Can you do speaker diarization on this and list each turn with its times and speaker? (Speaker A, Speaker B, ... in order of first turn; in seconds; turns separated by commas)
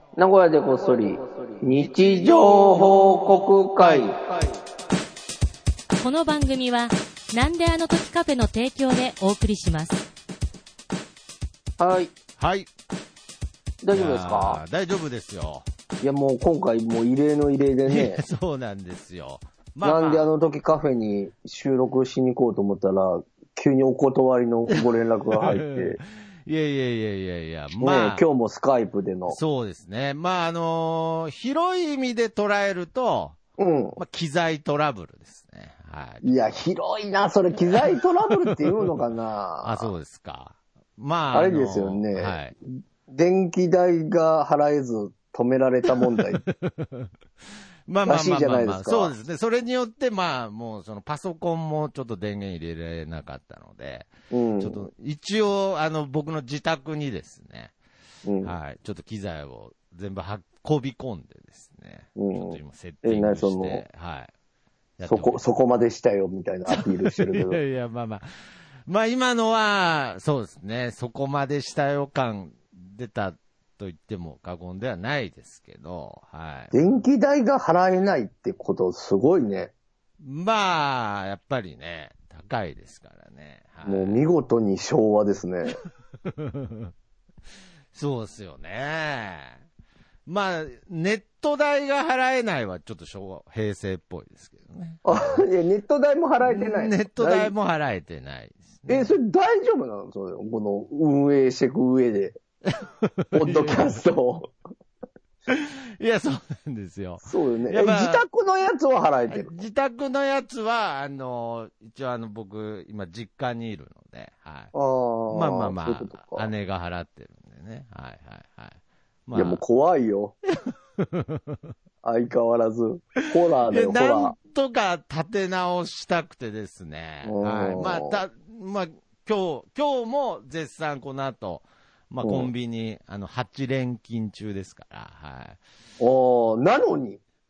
Speaker A: 0.2-4.2, Speaker B: 1.8-3.2, Speaker B: 3.8-4.5, Speaker C: 6.0-10.0, Speaker A: 11.8-12.1, Speaker B: 12.4-12.7, Speaker A: 13.8-14.6, Speaker B: 13.9-15.7, Speaker A: 16.0-18.2, Speaker B: 17.9-20.3, Speaker A: 19.8-26.0, Speaker B: 25.3-28.2, Speaker A: 27.8-29.4, Speaker B: 29.3-33.4, Speaker A: 33.6-34.0, Speaker B: 34.0-36.7, Speaker A: 36.2-39.9, Speaker B: 37.7-38.9, Speaker B: 39.6-42.5, Speaker A: 41.3-42.4, Speaker A: 43.1-46.4, Speaker B: 46.4-47.1, Speaker B: 47.9-57.7, Speaker A: 48.0-49.1, Speaker A: 54.3-54.9, Speaker A: 58.2-58.5, Speaker B: 58.4-64.3, Speaker A: 62.2-63.9, Speaker B: 65.0-65.4, Speaker A: 65.1-67.6, Speaker B: 66.7-68.3, Speaker B: 68.9-77.0, Speaker A: 76.7-79.7, Speaker B: 80.2-84.2, Speaker A: 83.8-85.8, Speaker B: 86.2-86.9, Speaker B: 87.9-89.6, Speaker B: 90.3-95.1, Speaker A: 95.0-97.5, Speaker B: 96.5-99.1, Speaker A: 98.9-102.4, Speaker B: 102.8-104.0, Speaker A: 103.3-104.5, Speaker B: 105.5-108.2, Speaker A: 107.2-109.6, Speaker B: 109.3-114.7, Speaker A: 114.7-116.5, Speaker B: 115.3-119.6, Speaker A: 119.3-120.4, Speaker B: 121.0-121.7, Speaker A: 122.0-124.3, Speaker B: 123.7-135.6, Speaker A: 127.2-128.2, Speaker A: 132.2-132.5, Speaker A: 136.0-137.2